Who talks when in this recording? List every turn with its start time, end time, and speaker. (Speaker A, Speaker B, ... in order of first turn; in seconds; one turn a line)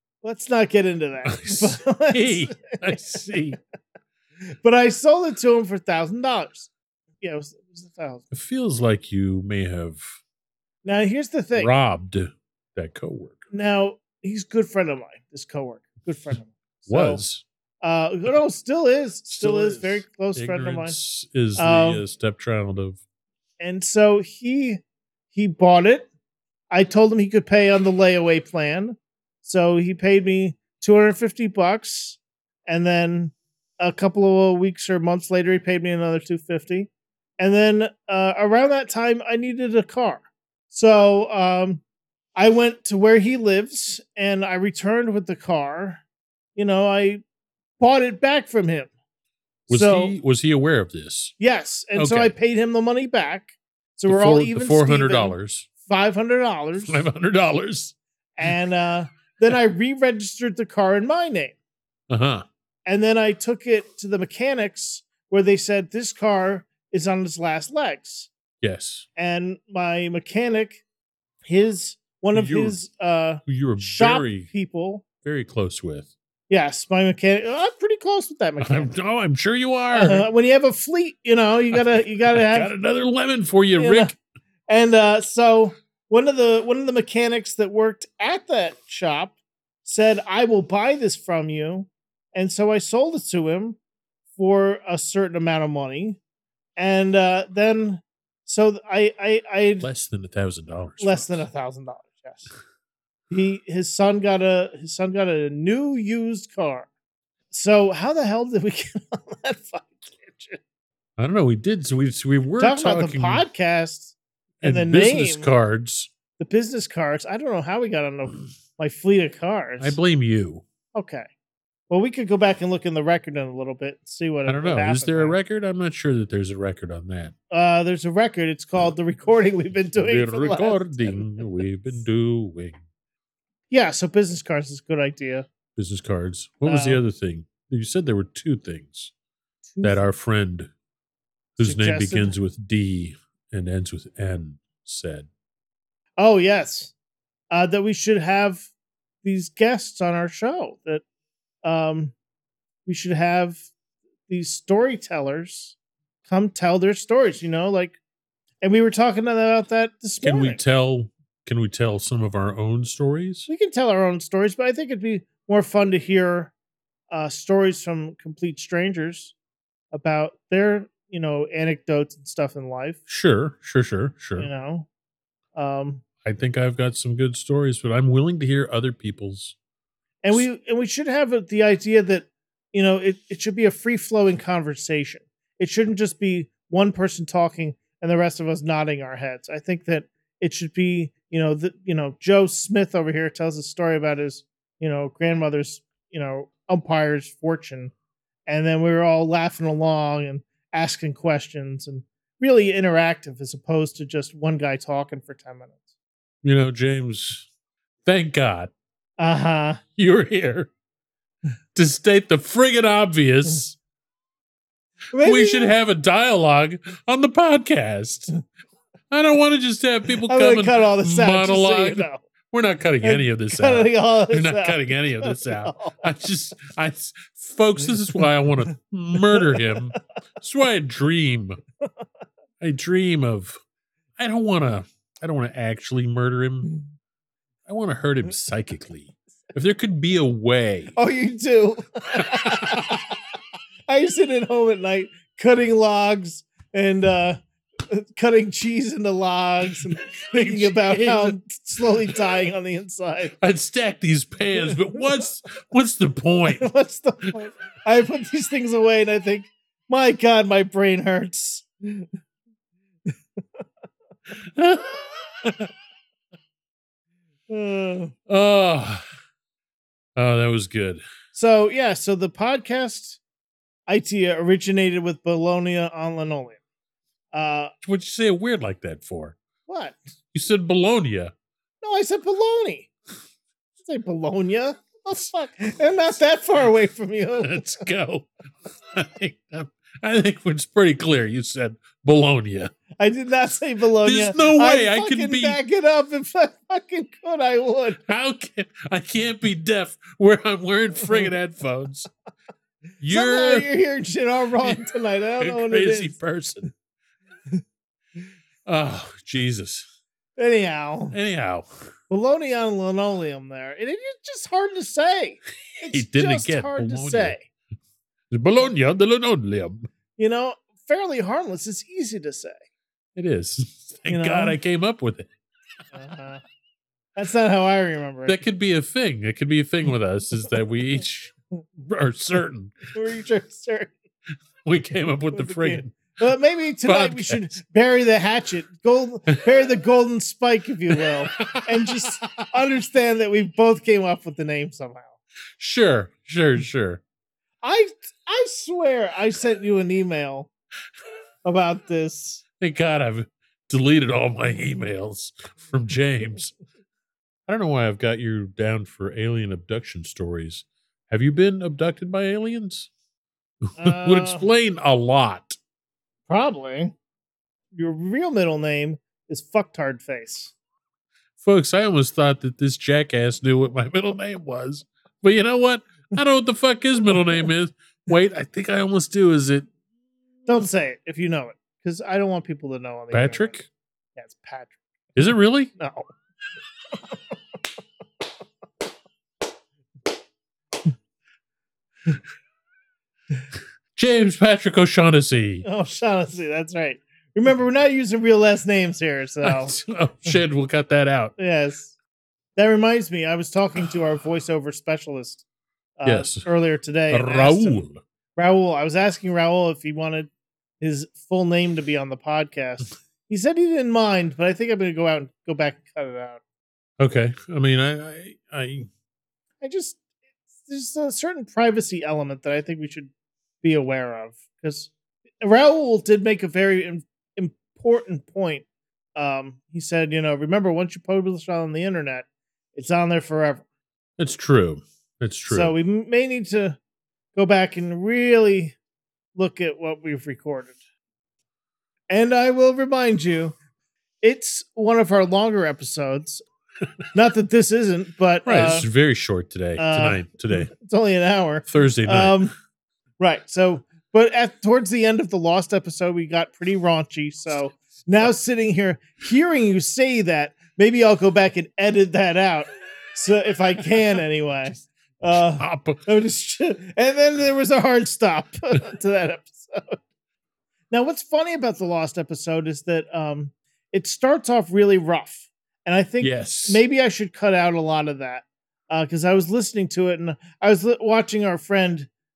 Speaker A: 0.2-3.2
Speaker B: 1.3-3.6
Speaker A: 4.5-6.7
Speaker A: 7.2-8.3
Speaker B: 8.3-10.2
Speaker A: 10.8-11.7
Speaker B: 11.6-13.5
Speaker A: 13.5-17.2
Speaker B: 16.9-17.4
Speaker A: 17.8-21.0
Speaker B: 19.3-23.0
Speaker A: 21.6-22.0
Speaker A: 23.6-24.8
Speaker A: 25.3-26.1
Speaker A: 26.7-41.8
Speaker A: 42.4-46.0
Speaker A: 46.5-47.2
Speaker A: 47.8-48.9
Speaker A: 49.7-50.1
Speaker B: 49.7-51.4
Speaker A: 51.4-57.0
Speaker B: 52.0-52.3
Speaker B: 54.1-55.7
Speaker B: 56.9-58.0
Speaker A: 58.4-61.6
Speaker B: 62.1-62.5
Speaker A: 62.9-68.3
Speaker B: 68.6-69.1
Speaker A: 69.2-70.8
Speaker A: 71.5-75.0
Speaker B: 72.3-72.8
Speaker B: 73.5-74.5
Speaker B: 75.2-76.1
Speaker A: 76.5-79.0
Speaker B: 78.6-80.3
Speaker A: 79.9-82.7
Speaker B: 81.7-84.2
Speaker A: 83.8-84.2
Speaker A: 84.7-93.8
Speaker A: 94.3-96.2
Speaker A: 96.8-99.9
Speaker B: 99.8-101.4
Speaker A: 101.0-102.5
Speaker A: 103.3-106.9
Speaker A: 107.5-110.6
Speaker B: 111.2-113.5
Speaker A: 112.6-115.5
Speaker B: 114.6-116.1
Speaker A: 116.4-120.0
Speaker B: 119.8-120.6
Speaker A: 120.9-121.3
Speaker A: 121.9-125.4
Speaker B: 124.5-127.3
Speaker A: 127.5-131.3
Speaker B: 130.0-132.8
Speaker A: 133.7-135.5
Speaker B: 135.8-139.1
Speaker A: 136.7-137.0
Speaker A: 139.7-140.0
Speaker B: 139.8-140.7
Speaker B: 141.6-145.3
Speaker A: 141.6-142.3
Speaker A: 146.2-146.9
Speaker A: 147.5-148.7
Speaker A: 149.2-151.0
Speaker A: 151.6-152.1
Speaker A: 152.9-153.7
Speaker A: 154.3-155.8
Speaker A: 156.3-158.0
Speaker A: 158.6-160.6
Speaker B: 160.2-163.5
Speaker A: 163.5-166.5
Speaker A: 167.1-169.3
Speaker A: 169.9-173.0
Speaker B: 173.1-174.5
Speaker A: 174.4-174.9
Speaker A: 175.6-176.0
Speaker B: 176.2-179.6
Speaker A: 180.2-197.9
Speaker A: 198.5-205.8
Speaker B: 206.4-207.5
Speaker B: 208.1-208.7
Speaker A: 209.2-209.8
Speaker B: 210.0-210.7
Speaker B: 211.8-213.8
Speaker A: 215.1-215.7
Speaker B: 215.2-218.3
Speaker B: 219.1-231.6
Speaker A: 220.2-222.2
Speaker A: 223.0-226.0
Speaker A: 229.4-229.7
Speaker B: 232.6-233.6
Speaker B: 234.2-236.7
Speaker B: 237.7-240.9
Speaker A: 240.9-243.2
Speaker B: 242.2-242.9
Speaker A: 243.9-253.3
Speaker B: 250.3-251.4
Speaker B: 253.4-256.7
Speaker A: 256.5-262.1
Speaker B: 264.4-265.7
Speaker A: 267.5-268.1
Speaker B: 268.3-269.0
Speaker B: 270.2-271.0
Speaker A: 271.3-273.2
Speaker A: 273.9-276.6
Speaker A: 277.3-277.7
Speaker B: 277.8-279.4
Speaker A: 279.7-280.0
Speaker B: 280.3-281.3
Speaker A: 281.8-282.9
Speaker A: 283.8-287.7
Speaker B: 287.4-288.3
Speaker B: 288.9-292.7
Speaker A: 293.0-298.0
Speaker B: 294.0-295.6
Speaker B: 298.1-302.1
Speaker B: 303.0-303.7
Speaker A: 303.1-306.2
Speaker B: 305.4-306.7
Speaker B: 308.7-309.9
Speaker A: 310.4-311.2
Speaker B: 311.1-311.7
Speaker A: 312.1-317.5
Speaker B: 315.9-317.4
Speaker B: 318.3-319.9
Speaker A: 320.2-322.6
Speaker B: 323.1-325.3
Speaker A: 324.1-324.6
Speaker A: 325.9-326.4
Speaker A: 327.2-328.4
Speaker B: 328.3-332.8
Speaker A: 332.9-333.9
Speaker B: 334.6-336.1
Speaker A: 335.3-345.2
Speaker B: 336.9-337.6
Speaker B: 340.9-342.3
Speaker B: 345.6-347.0
Speaker A: 347.6-350.5
Speaker A: 351.4-352.4
Speaker B: 352.6-356.5
Speaker B: 357.5-362.9
Speaker B: 363.7-365.6
Speaker A: 363.8-364.5
Speaker A: 366.3-366.9
Speaker A: 367.7-370.5
Speaker B: 371.4-379.7
Speaker A: 380.5-383.6
Speaker B: 383.1-383.7
Speaker A: 384.2-384.8
Speaker B: 385.2-385.7
Speaker A: 385.8-386.1
Speaker B: 393.9-395.6
Speaker A: 395.6-399.8
Speaker B: 399.4-401.3
Speaker A: 401.4-401.9
Speaker A: 402.6-405.4
Speaker A: 406.0-407.8
Speaker B: 406.1-406.5
Speaker B: 407.1-408.0
Speaker A: 408.4-416.4
Speaker B: 417.0-418.9
Speaker A: 419.6-420.0
Speaker A: 420.6-423.1
Speaker A: 423.6-428.6
Speaker A: 429.2-433.6
Speaker B: 434.2-435.8
Speaker A: 435.5-436.8
Speaker A: 437.4-438.8
Speaker A: 439.4-440.8
Speaker A: 442.1-443.6
Speaker A: 444.2-446.4
Speaker A: 447.1-448.9
Speaker B: 448.5-450.7
Speaker A: 449.8-452.5
Speaker B: 451.7-452.4
Speaker A: 453.2-470.0
Speaker B: 465.6-466.0
Speaker A: 470.9-482.1
Speaker B: 476.2-476.8